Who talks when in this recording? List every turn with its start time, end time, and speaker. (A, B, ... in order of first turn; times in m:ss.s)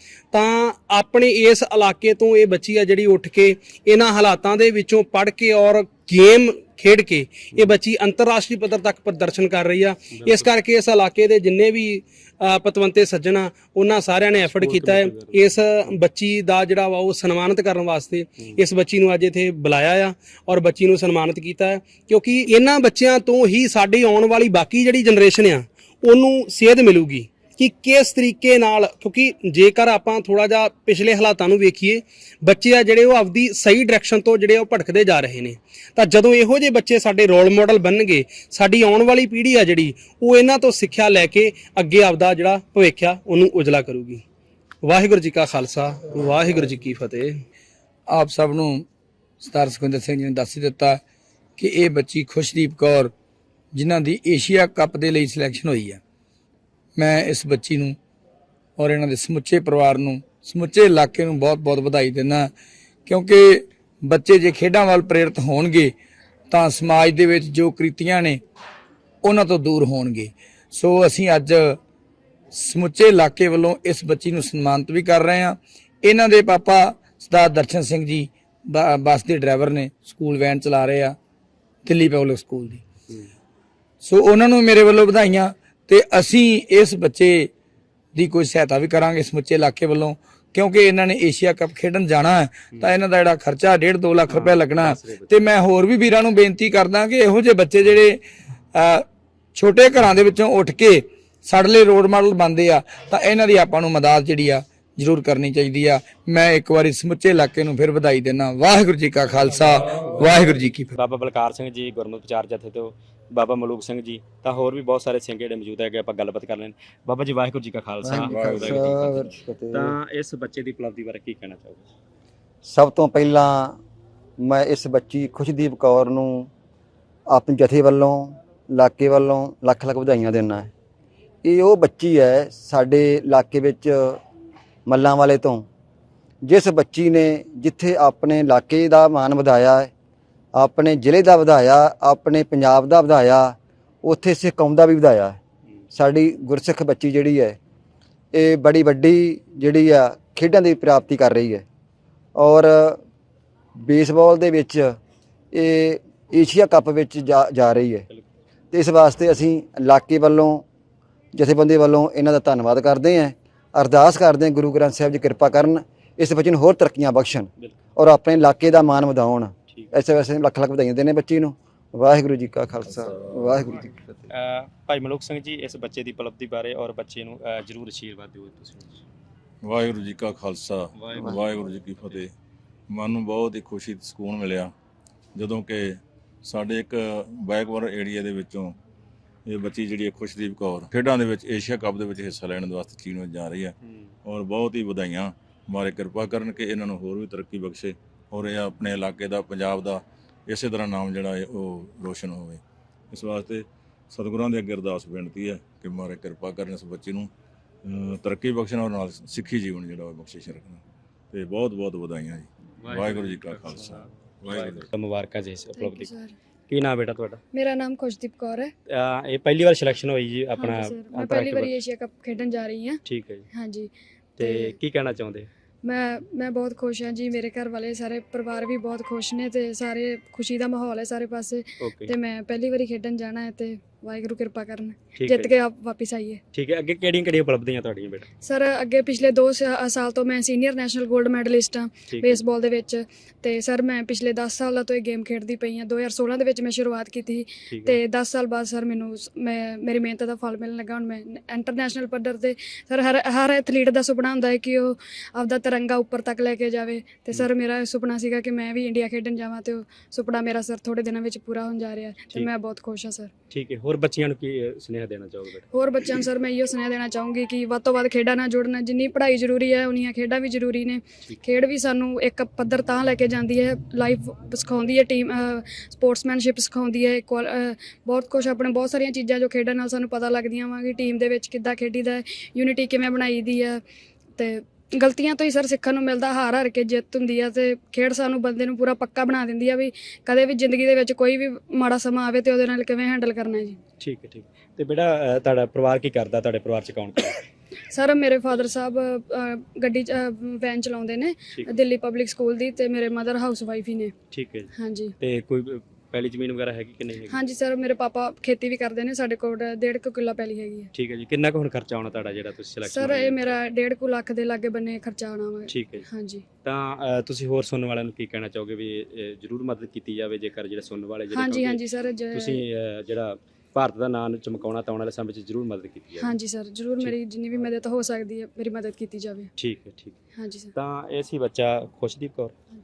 0:00.3-0:44.2 A
0:10.2-0:10.5 B
0:14.4-0:15.9 B
0:44.8-0:47.3 A
0:48.1-0:48.9 C
0:49.4-0:51.0 C
0:51.6-0:53.1 C
0:53.7-0:56.0 C
0:57.0-0:58.0 C
0:58.8-1:02.5 C
1:03.1-1:05.9 C
1:06.5-1:08.4 C
1:09.2-1:11.8 C
1:12.5-1:21.2 C
1:21.8-1:22.8 C
1:24.0-1:27.5 C
1:28.2-1:38.2 C
1:34.3-1:35.3 B
1:38.7-1:50.9 C
1:51.0-2:01.9 B
1:58.0-2:00.0 D
1:58.2-1:58.8 E
2:02.6-2:03.8 D
2:04.4-2:06.5 D
2:07.3-2:10.7 D
2:11.4-2:14.2 D
2:14.9-2:15.7 D
2:16.4-2:19.9 D
2:20.6-2:25.4 D
2:25.9-2:27.6 D
2:28.3-2:31.6 D
2:32.4-2:33.0 D
2:33.8-2:35.0 D
2:35.5-2:38.1 D
2:38.7-2:40.6 D
2:41.3-2:54.0 D
2:54.3-2:59.0 B
2:59.6-3:02.3 E
3:01.0-3:02.2 B
3:02.9-3:04.7 E
3:05.4-3:08.8 E
3:09.5-3:27.3 E
3:27.8-3:34.9 E
3:32.8-3:36.1 B
3:35.8-3:36.3 F
3:36.7-3:37.4 B
3:37.5-3:38.7 F
3:38.9-3:41.8 B
3:40.6-3:43.9 F
3:43.0-3:43.5 B
3:44.4-3:45.5 B
3:44.4-3:44.8 F
3:45.8-3:56.4 F
3:51.8-3:52.2 B
3:55.2-3:55.5 B
3:56.5-3:58.3 B
3:58.4-4:23.3 F
4:02.1-4:02.4 B
4:07.7-4:08.0 B
4:23.5-4:25.7 B
4:25.7-4:43.8 F
4:44.4-4:53.8 F
4:54.0-4:57.4 B
4:57.9-5:04.1 F
5:04.3-5:07.4 B
5:04.8-5:05.1 F
5:07.3-5:10.9 F
5:10.9-5:13.6 B
5:12.9-5:16.4 F
5:15.7-5:16.1 B
5:16.6-5:26.4 B
5:21.3-5:22.6 F
5:26.2-5:29.5 F
5:29.6-5:30.2 B
5:30.4-5:30.7 F
5:30.7-5:32.5 B